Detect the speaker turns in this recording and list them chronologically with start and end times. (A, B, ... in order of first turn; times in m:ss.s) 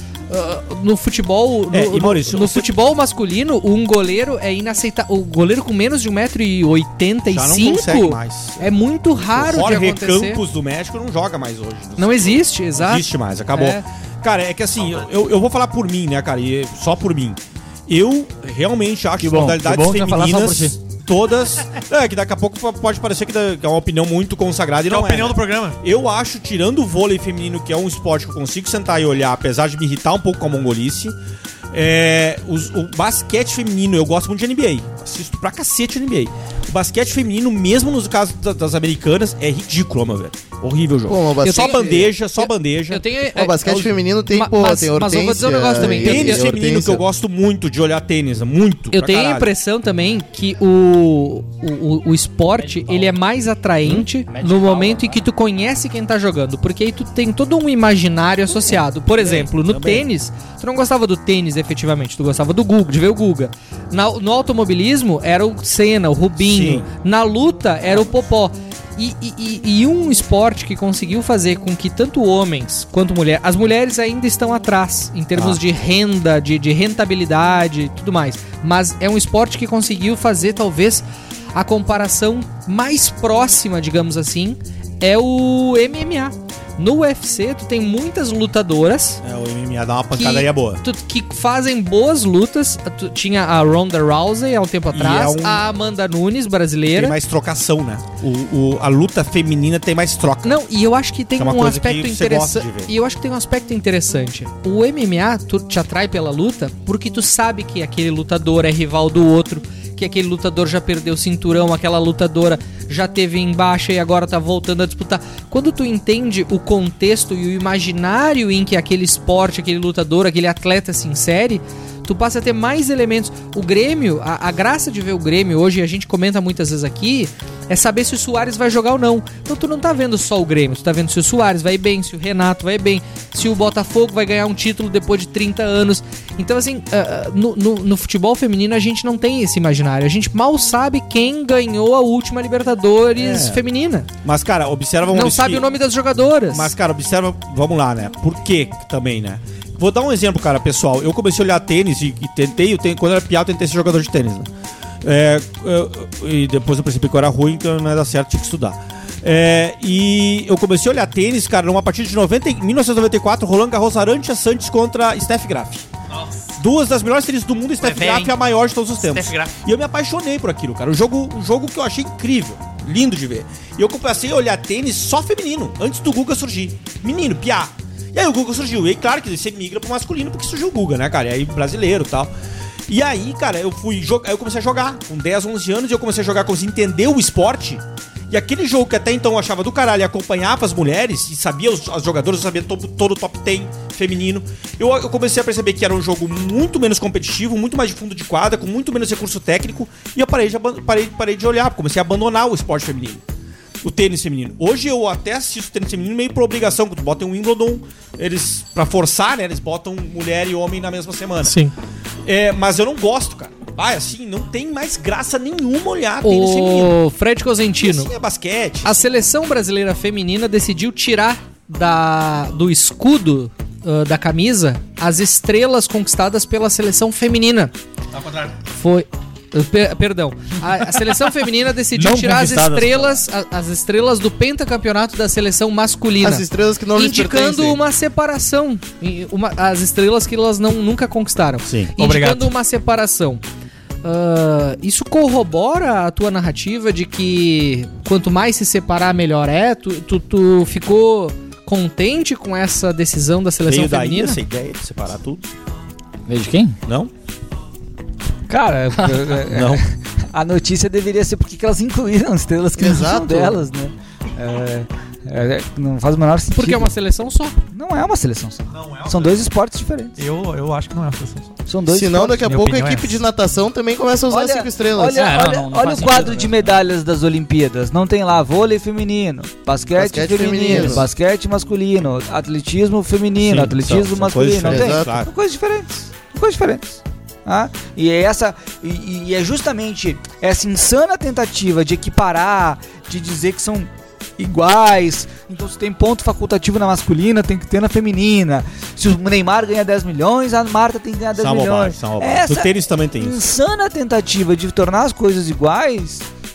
0:00.3-0:10.4 A
0:01.7-0:02.7 B
0:07.3-0:31.1 B
0:12.0-0:13.8 A
0:19.2-0:20.8 C
0:24.8-0:25.8 D
0:31.7-0:43.1 B
0:41.1-0:41.9 E
0:41.4-0:46.5 A
0:43.3-0:47.0 E
0:45.8-0:49.5 B
0:48.9-1:29.2 A
0:52.6-0:53.2 C
0:54.1-0:55.2 C
0:59.1-1:00.0 B
1:06.4-1:06.9 B
1:15.3-1:15.6 B
1:29.2-1:30.8 B
1:30.1-1:37.2 A
1:34.9-1:35.6 B
1:36.9-1:40.6 B
1:40.4-2:24.1 A
1:41.4-1:42.9 B
2:23.2-2:23.6 B
2:24.2-2:25.6 B
2:25.1-2:26.7 A
2:26.5-2:34.5 B
2:35.0-2:45.8 B
2:46.1-2:46.4 D
2:46.6-3:02.3 B
2:47.8-2:48.4 D
2:49.0-2:49.6 D
3:02.9-3:23.2 B
3:23.8-3:31.6 B
3:31.4-3:31.7 A
3:32.2-3:36.9 B
3:36.2-3:38.1 A
3:37.8-3:39.0 B
3:38.8-3:47.7 A
3:48.7-3:56.4 A
3:52.0-3:53.2 C
3:56.2-3:57.8 E
3:57.0-4:03.4 A
4:01.6-4:02.0 B
4:02.0-4:02.5 D
4:04.0-4:14.4 A
4:13.6-4:15.5 B
4:16.3-4:16.8 C
4:18.5-4:26.9 F
4:19.4-4:19.8 B
4:22.8-4:23.6 E
4:26.5-4:27.6 A
4:27.7-4:30.2 F
4:28.7-4:29.5 D
4:30.2-4:31.6 D
4:31.7-4:32.5 F
4:31.9-4:35.2 E
4:32.4-4:33.2 D
4:34.3-5:06.2 F
4:35.1-4:36.8 C
4:39.9-4:41.1 E
4:43.4-4:45.3 B
4:44.6-4:45.2 E
5:01.3-5:03.4 B